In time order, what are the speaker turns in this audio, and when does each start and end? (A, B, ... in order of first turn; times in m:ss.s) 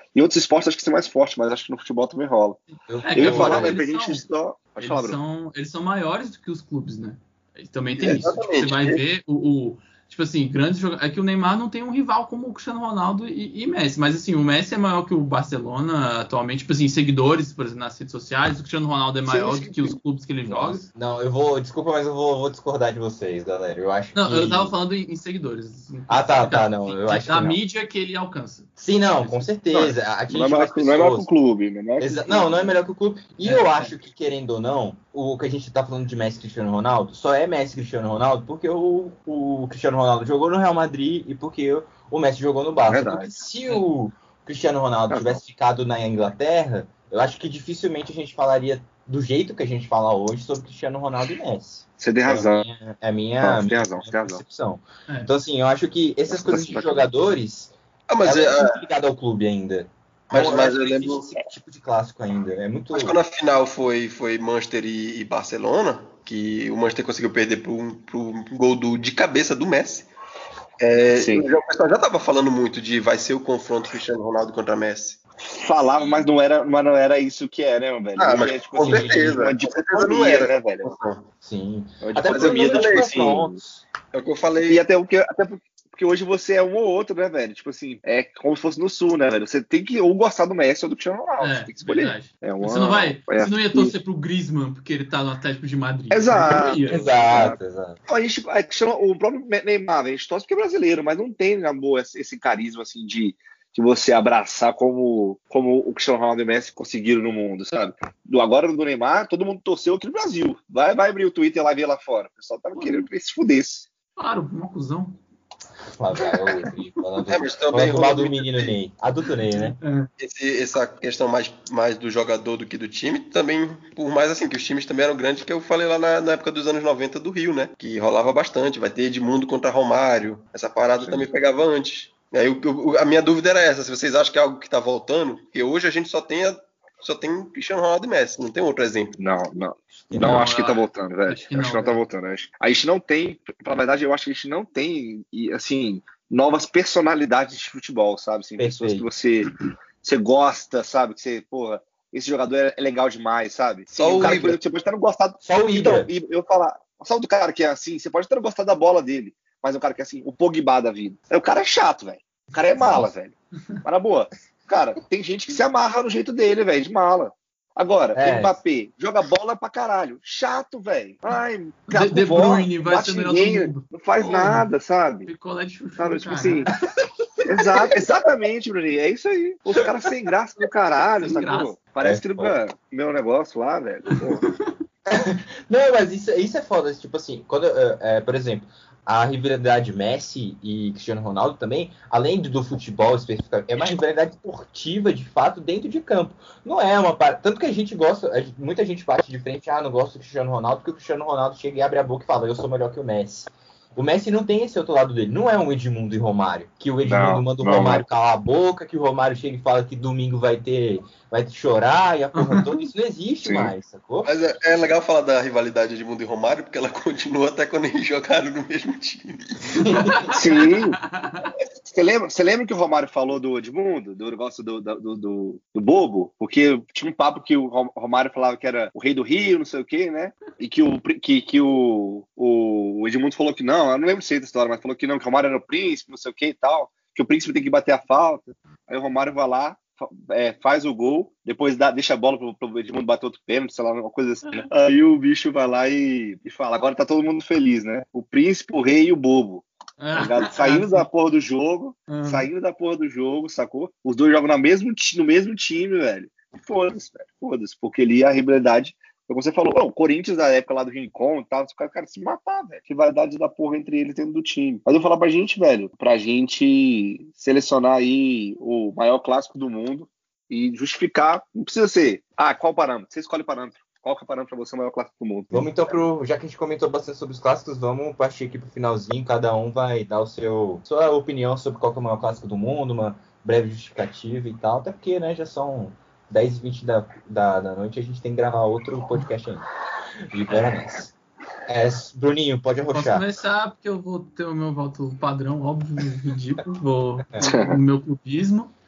0:00.1-0:02.6 A
0:02.7-0:04.2 B
0:02.9-0:03.8 C
0:03.1-0:05.2 A
0:04.8-0:20.8 B
0:08.0-0:09.0 D
0:19.2-0:20.0 A
0:20.4-0:24.7 C
0:24.1-0:28.7 B
0:26.1-0:27.6 C
0:28.8-0:31.3 C
0:29.2-0:29.5 B
0:29.7-0:32.7 A
0:32.0-1:03.2 C
0:33.4-0:33.9 B
0:42.9-0:43.3 A
0:45.1-0:45.4 A
0:52.0-0:52.6 A
0:53.4-0:54.4 A
0:56.3-0:57.1 A
0:58.1-0:58.8 D
1:00.3-1:01.3 D
1:02.9-1:10.1 D
1:10.8-1:15.2 D
1:11.1-1:11.5 A
1:15.4-1:20.9 A
1:18.2-1:21.2 D
1:18.8-1:19.4 C
1:21.4-1:23.8 C
1:22.0-1:23.6 A
1:22.2-1:23.4 D
1:24.1-1:24.8 D
1:24.7-1:34.0 A
1:31.4-1:37.2 B
1:36.1-1:53.9 A
1:36.8-1:38.0 C
1:52.7-1:53.1 B
1:54.2-1:55.2 B
1:56.0-1:59.8 C
1:56.2-1:56.6 A
1:57.3-1:58.8 D
1:59.5-2:00.1 B
2:00.2-2:19.2 D
2:11.0-2:11.3 A
2:19.2-2:55.3 A
2:20.1-2:20.5 C
2:20.2-2:22.0 B
2:28.6-2:29.1 C
2:33.9-2:34.6 D
2:35.4-2:36.1 C
2:42.8-2:43.1 C
2:48.1-2:48.6 C
2:51.9-2:54.7 B
2:55.3-2:56.7 B
2:56.0-2:56.7 A
2:57.4-3:04.5 A
3:01.2-3:01.7 B
3:02.0-3:02.6 C
3:05.1-3:34.3 C
3:27.0-3:28.0 A
3:32.3-3:32.8 B
3:33.4-3:33.7 A
3:34.2-3:39.9 D
3:39.8-3:40.1 C
3:39.8-3:41.5 B
3:40.3-3:41.0 A
3:41.8-4:35.7 A
4:10.0-4:11.1 B
4:12.1-4:12.5 B
4:35.5-4:49.7 C
4:50.3-4:51.1 C
4:50.5-4:50.7 B
4:51.7-4:53.3 C
4:52.9-4:58.7 B
4:57.4-4:57.8 A